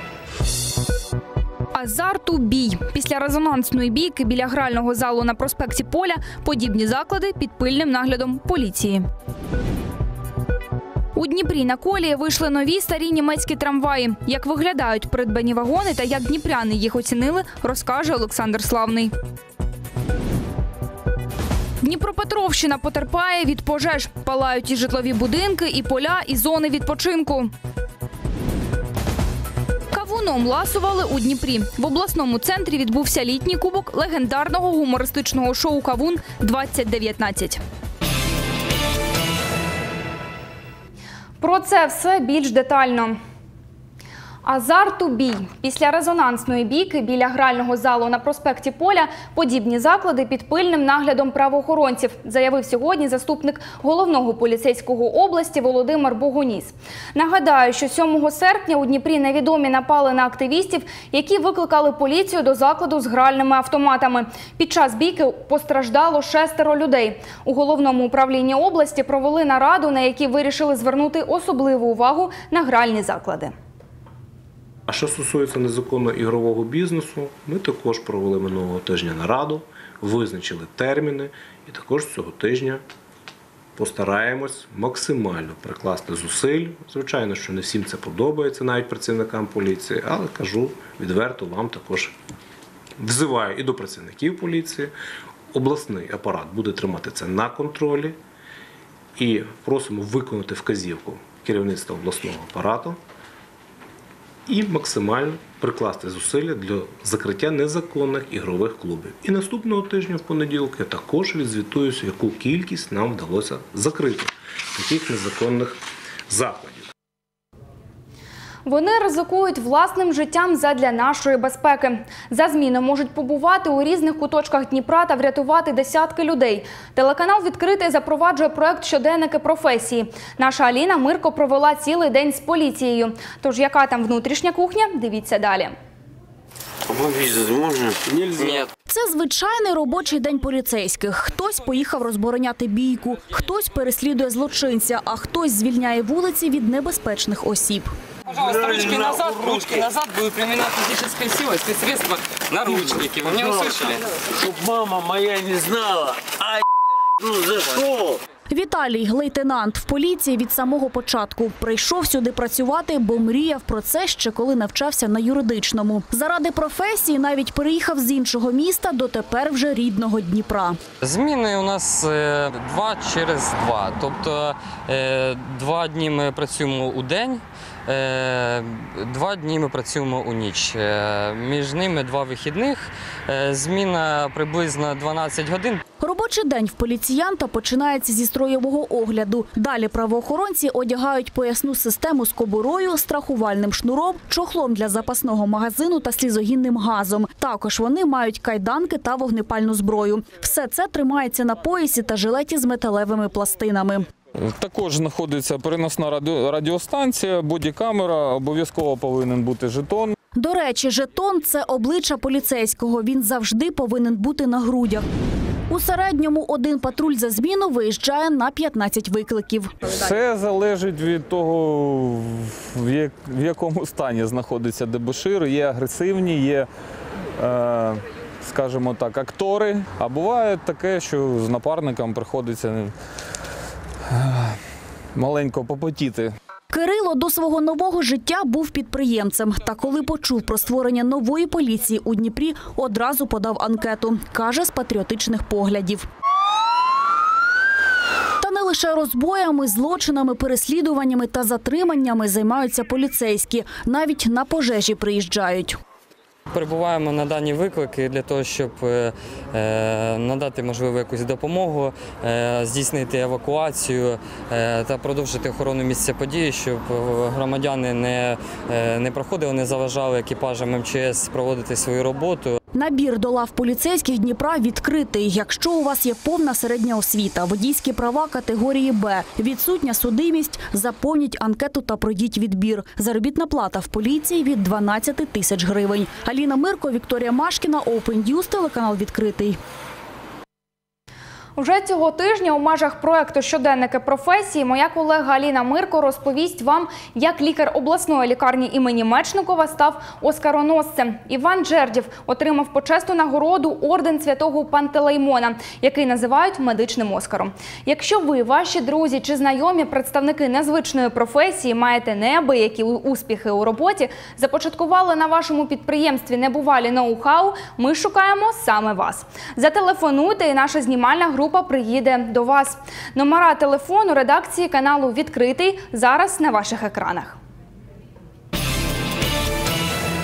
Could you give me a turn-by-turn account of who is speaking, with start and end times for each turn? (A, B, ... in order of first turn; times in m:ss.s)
0:01.7-0:09.0 A
0:11.1-0:19.1 A
0:21.8-0:27.5 A
0:29.9-0:37.6 A
0:41.4-0:43.2 A
0:44.4-1:13.5 A
1:14.9-1:22.8 B
1:23.8-1:32.2 B
1:33.0-1:34.9 B
1:35.5-1:38.2 B
1:39.2-1:43.0 B
1:44.5-1:55.8 B
1:56.3-1:56.9 B
1:58.6-2:15.7 A
2:16.9-2:18.7 C
2:18.9-2:27.9 D
2:28.3-2:34.0 E
2:28.4-2:29.8 C
2:32.6-2:36.6 C
2:37.2-2:38.2 C
2:38.5-2:50.8 D
2:51.0-3:05.8 E
3:06.0-3:24.1 D
3:24.4-3:30.1 F
3:30.3-3:35.0 D
3:35.7-3:39.7 D
3:39.8-3:46.7 F
3:47.4-3:52.9 F
3:54.1-3:54.6 F
3:55.1-3:56.3 F
3:56.7-4:06.1 D
4:08.4-4:15.8 D
4:16.5-4:32.5 E
4:32.7-4:49.6 D
4:51.6-5:27.4 A